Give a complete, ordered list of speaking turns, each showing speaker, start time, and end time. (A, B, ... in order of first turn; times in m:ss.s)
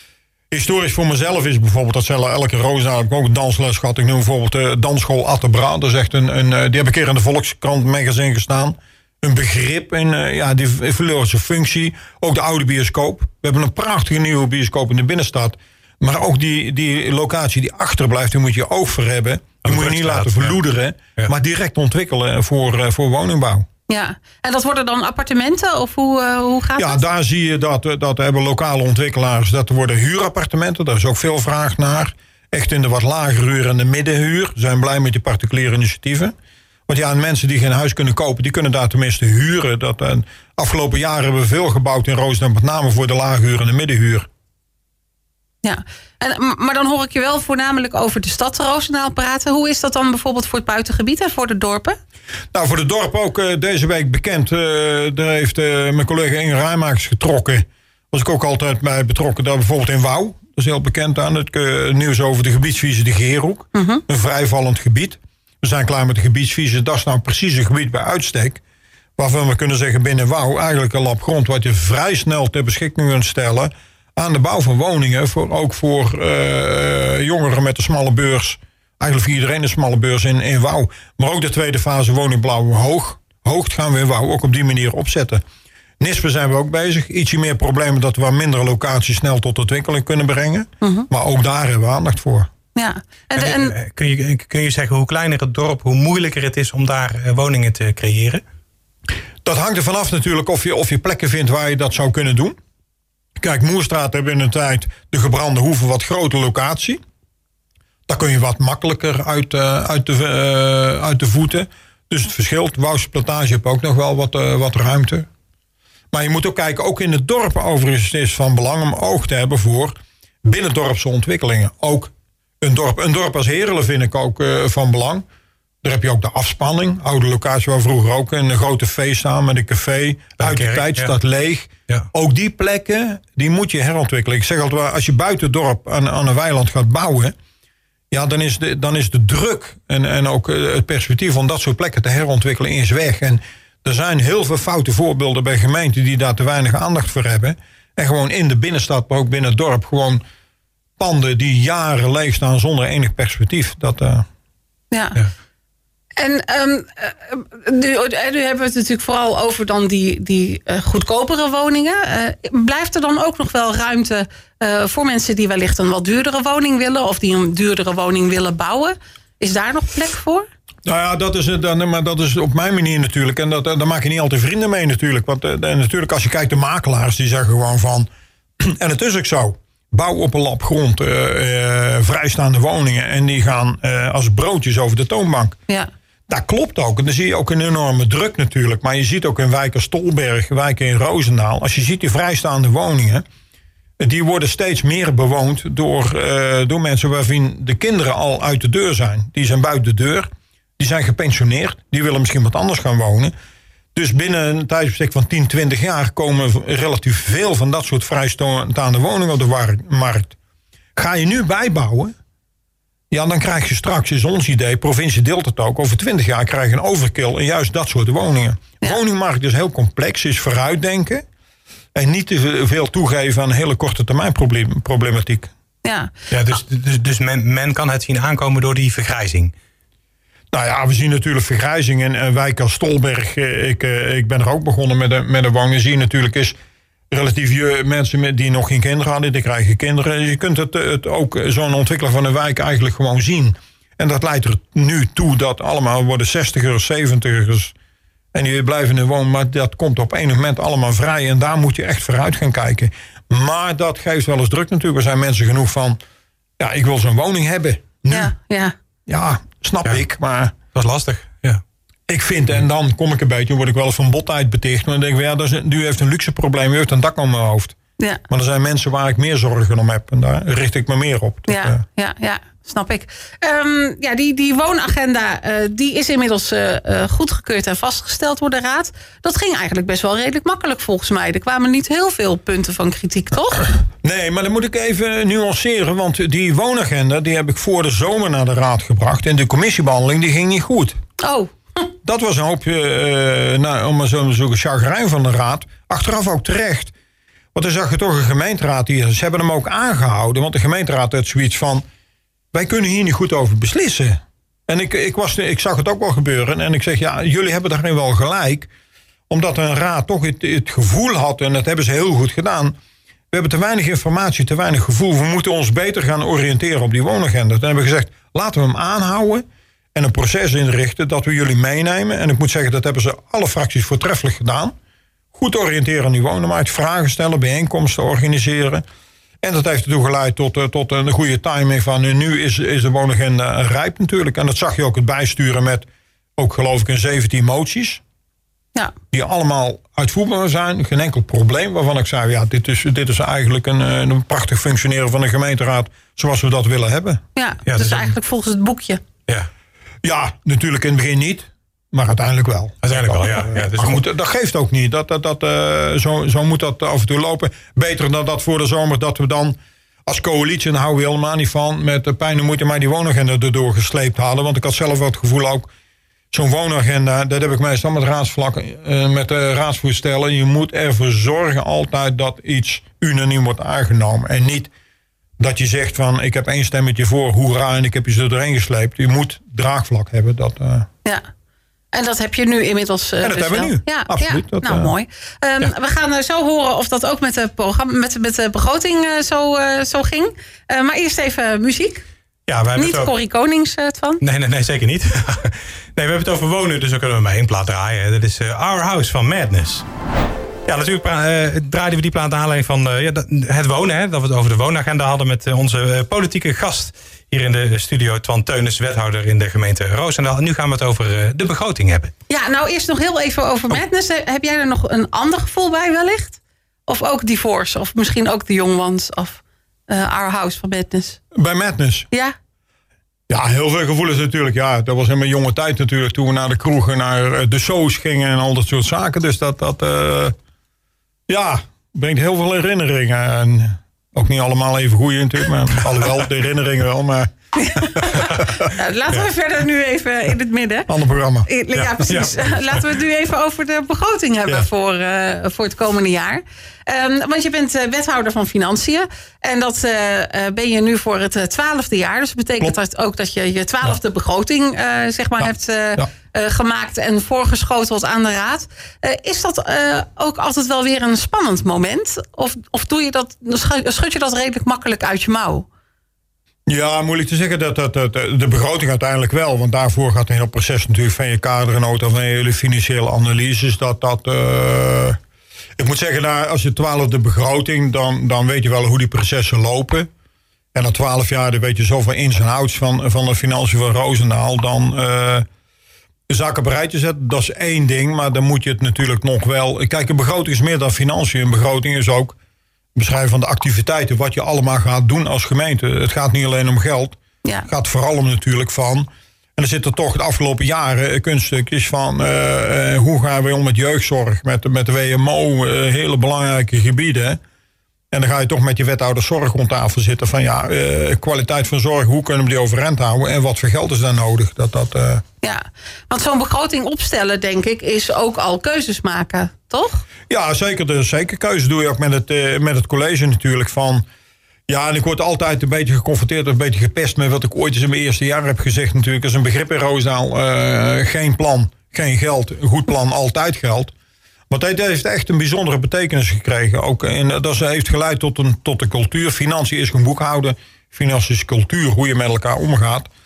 0:00.5-0:23.7 A
0:19.6-0:20.6 B
0:23.9-0:27.0 C
0:26.8-0:36.3 A
0:36.9-0:44.3 A
0:45.6-0:52.0 C
0:52.5-1:08.6 A
1:03.8-1:04.0 C
1:09.2-1:25.4 A
1:26.0-1:32.5 A
1:30.8-1:31.1 C
1:32.8-1:33.8 C
1:33.4-1:38.4 B
1:39.4-1:42.6 A
1:43.4-1:47.0 A
1:48.1-1:55.3 A
1:56.1-2:05.2 A
2:05.8-2:17.4 A
2:10.4-2:11.1 B
2:18.1-2:30.2 A
2:31.0-2:34.3 A
2:34.9-2:35.2 C
2:36.2-2:50.5 C
2:50.9-2:58.1 A
2:58.6-3:05.6 A
3:06.3-3:13.2 A
3:14.0-3:23.3 A
3:24.0-3:30.4 A
3:31.0-3:32.2 A
3:33.1-3:41.2 A
3:42.0-3:45.5 A
3:45.8-3:46.1 C
3:46.3-3:49.5 B
3:50.5-3:56.6 A
3:57.1-4:07.7 A
4:08.3-4:16.0 A
4:16.6-4:18.3 A
4:18.1-4:18.8 C
4:19.1-4:20.6 A
4:20.7-4:21.6 B
4:22.1-4:27.8 A
4:28.3-4:31.8 A
4:31.5-4:43.7 C
4:44.0-4:51.0 A
4:51.2-4:51.8 C
4:52.0-4:56.9 A
4:57.5-5:01.8 A
5:02.5-5:08.7 A
5:09.3-5:12.8 A
5:13.3-5:24.8 A
5:25.3-5:28.8 A
5:29.4-5:38.0 A
5:39.1-5:47.2 A
5:47.4-5:49.0 C
5:47.7-5:48.2 B
5:50.0-6:05.7 A
5:52.8-5:54.0 B
6:06.3-6:14.7 A
6:15.4-6:20.9 A
6:21.9-6:32.0 C
6:23.2-6:24.9 A
6:32.5-6:33.1 B
6:32.8-6:34.2 C
6:34.2-6:39.8 B
6:40.7-6:52.1 B
6:52.3-7:01.2 C
7:01.3-7:02.1 A
7:03.3-7:10.4 A
7:11.3-7:18.7 A
7:17.6-7:20.9 C
7:20.9-7:21.5 A
7:21.4-7:45.7 C
7:21.8-7:22.6 B
7:46.7-7:55.2 A
7:55.8-8:00.1 A
8:00.7-8:05.5 A
8:06.3-8:12.4 A
8:13.0-8:27.4 A
8:28.1-8:35.2 A
8:35.4-8:40.0 C
8:40.3-8:44.1 A
8:44.7-8:53.9 A
8:54.5-9:03.1 A